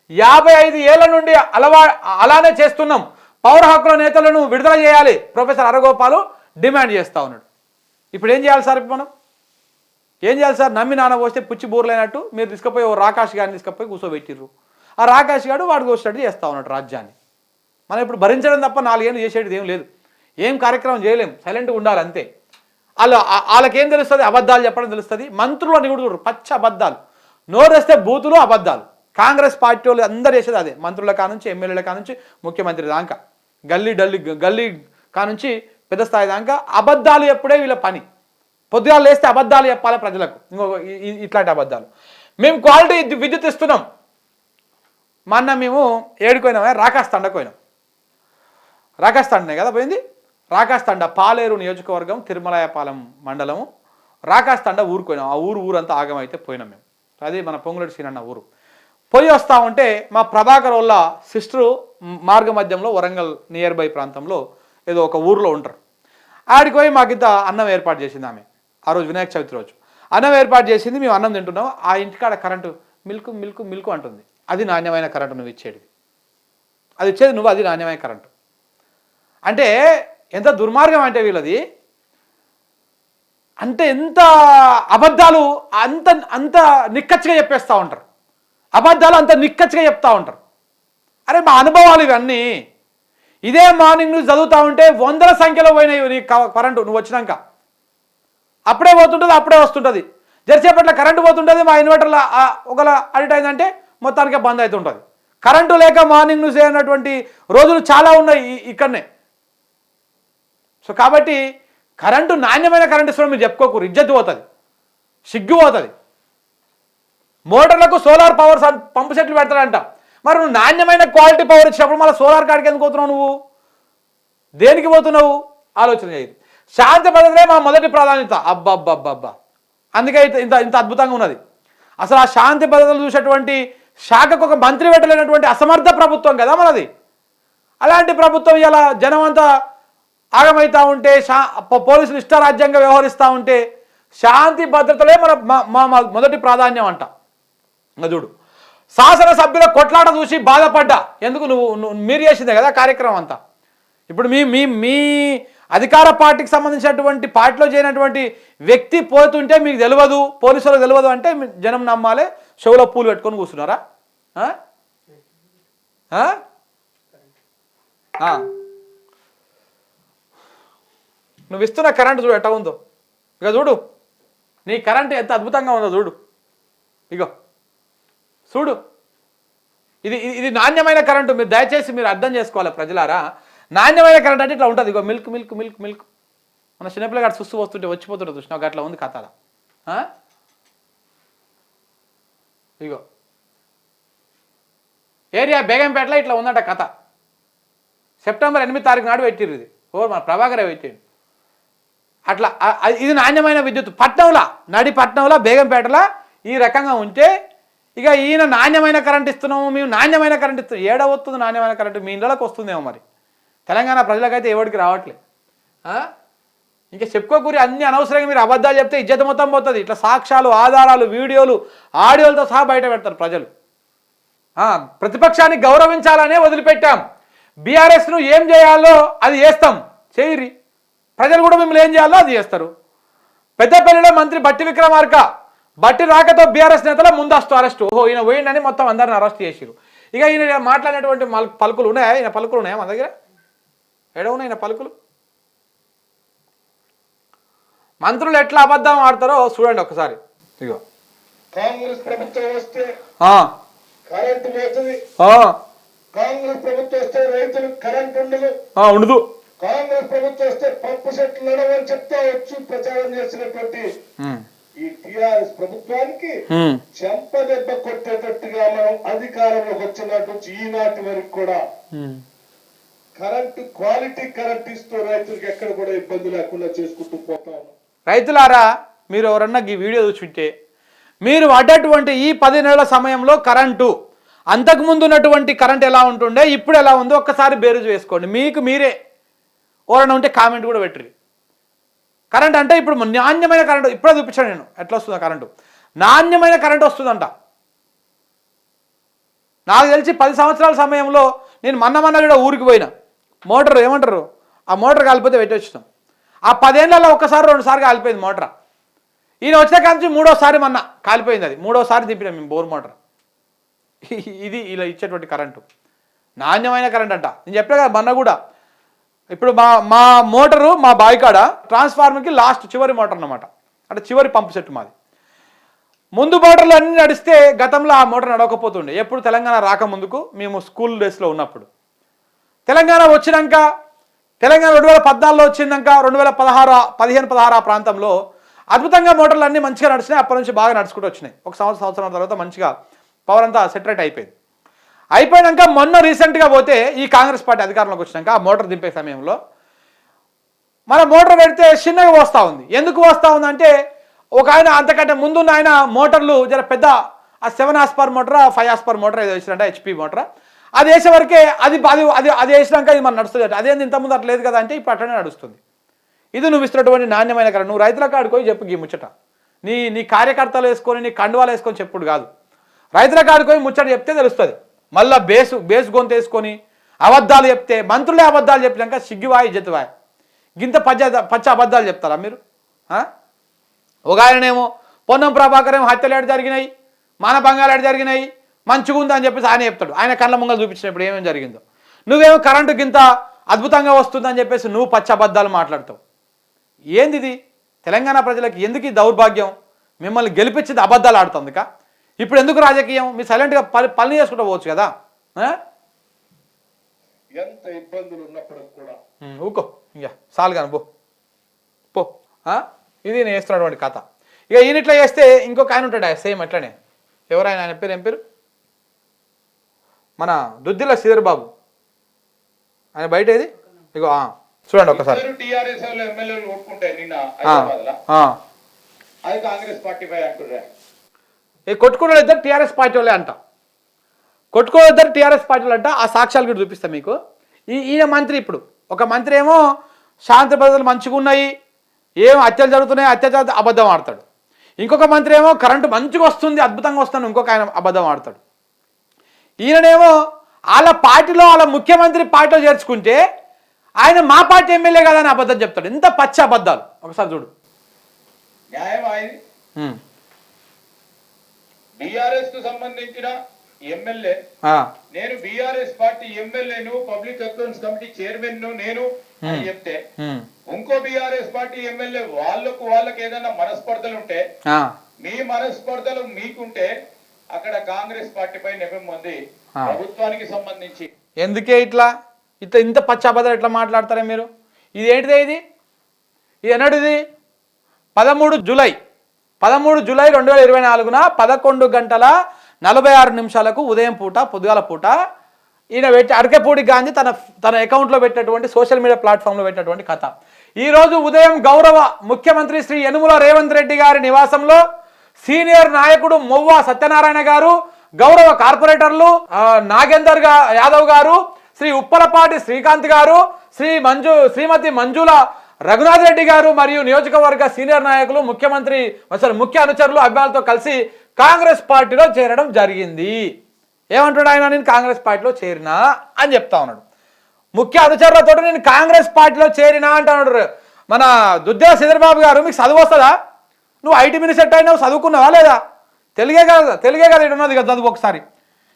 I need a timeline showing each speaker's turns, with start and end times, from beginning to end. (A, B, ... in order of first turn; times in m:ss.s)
0:00.2-0:07.4 A
0:08.1-0:09.1 A
0:10.3-0:14.5 A
0:15.0-0:17.2 A
0:17.9-0:19.9 A
0:20.4-0:22.2 A
0:23.0-0:27.0 A
0:27.5-0:33.2 A
0:33.7-0:38.0 A
0:38.7-0:41.9 A
0:42.4-0:43.8 A
0:45.3-0:47.5 A
0:49.0-0:50.0 A
0:50.6-0:53.7 A
0:54.3-0:58.4 A
0:59.1-1:01.7 A
1:02.3-1:05.8 A
1:06.5-1:15.9 A
1:17.0-1:18.3 A
1:20.4-1:21.6 A
1:23.6-1:24.3 A
1:24.9-1:28.0 A
1:28.8-1:30.4 A
1:31.3-1:32.4 A
1:33.5-1:37.4 A
1:38.7-1:49.0 A
1:50.8-1:51.4 A
1:52.0-1:54.4 A
1:55.3-1:55.9 A
1:57.5-2:03.3 A
2:04.6-2:09.3 A
2:10.0-2:11.4 A
2:12.0-2:13.6 A
2:14.1-2:16.9 A
2:17.8-2:19.5 A
2:20.4-2:23.6 A
2:24.2-2:27.1 A
2:28.0-2:28.3 A
2:29.0-2:33.4 A
2:34.1-2:43.8 A
2:51.5-2:52.8 A
2:53.4-2:53.8 A
2:54.7-2:56.2 A
2:58.5-2:58.8 A
3:00.0-3:03.2 A
3:03.8-3:06.1 A
3:06.8-3:09.3 A
3:15.4-3:16.9 A
3:18.2-3:21.0 A
3:22.3-3:27.3 A
3:28.0-3:33.0 A
3:33.7-3:35.2 A
3:36.9-3:43.5 A
3:44.6-3:47.0 A
3:47.7-3:50.5 A
3:51.2-3:52.7 A
3:53.6-3:55.2 A
3:55.8-4:03.1 A
4:04.2-4:04.9 A
4:08.0-4:10.8 A
4:11.6-4:12.9 B
4:13.2-4:13.5 A
4:14.1-4:15.0 B
4:15.2-4:15.5 A
4:16.2-4:18.5 B
4:18.8-4:19.2 A
4:19.6-4:23.9 B
4:24.8-4:26.3 B
4:26.5-4:26.8 A
4:26.9-4:31.6 B
4:32.0-4:32.2 A
4:33.2-4:37.7 B
4:38.1-4:40.5 A
4:41.2-4:43.9 A
4:44.5-4:48.9 A
4:49.9-4:51.1 A
4:52.3-4:55.5 A
4:56.0-4:57.3 A
4:59.7-5:02.9 A
5:03.5-5:05.8 A
5:06.5-5:08.5 A
5:09.4-5:13.0 A
5:14.0-5:15.6 A
5:16.4-5:18.4 A
5:19.3-5:24.9 A
5:26.2-5:31.7 A
5:32.7-5:33.6 A
5:34.4-5:38.1 A
5:38.7-5:42.7 A
5:43.3-5:44.3 A
5:45.2-5:49.4 A
5:50.9-5:53.7 A
5:54.4-5:56.9 A
5:57.5-6:00.2 A
6:00.8-6:05.6 A
6:06.4-6:09.1 A
6:09.6-6:12.3 A
6:13.0-6:19.9 A
6:20.6-6:22.4 A
6:24.1-6:26.7 A
6:27.2-6:36.0 A
6:37.0-6:41.6 A
6:42.2-6:45.6 A
6:47.4-6:49.0 B
6:49.2-6:50.8 A
6:51.9-6:56.8 A
6:57.3-6:58.2 A
7:00.2-7:01.5 A
7:03.0-7:05.2 A
7:04.9-7:08.0 B
7:07.4-7:08.3 A
7:09.3-7:10.7 B
7:11.7-7:13.4 A
7:14.5-7:17.2 A
7:17.7-7:19.6 A
7:20.3-7:21.5 A
7:22.2-7:24.2 A
7:24.8-7:28.4 A
7:29.6-7:30.1 A
7:30.8-7:33.2 A
7:34.0-7:37.5 A
7:38.7-7:39.4 B
7:42.0-7:43.3 B
7:43.9-7:44.4 B
7:45.1-7:50.0 B
7:50.2-7:50.4 A
7:50.7-7:54.4 B
7:55.2-7:56.9 B
7:57.6-8:01.1 B
8:01.4-8:02.1 A
8:02.6-8:05.6 A
8:06.7-8:07.2 A
8:08.2-8:09.0 A
8:09.6-8:12.3 A
8:12.8-8:15.1 A
8:16.0-8:24.8 A
8:25.4-8:43.4 A
8:44.1-8:47.0 A
8:47.8-8:53.3 A
8:54.0-8:55.8 A
8:56.4-8:58.4 A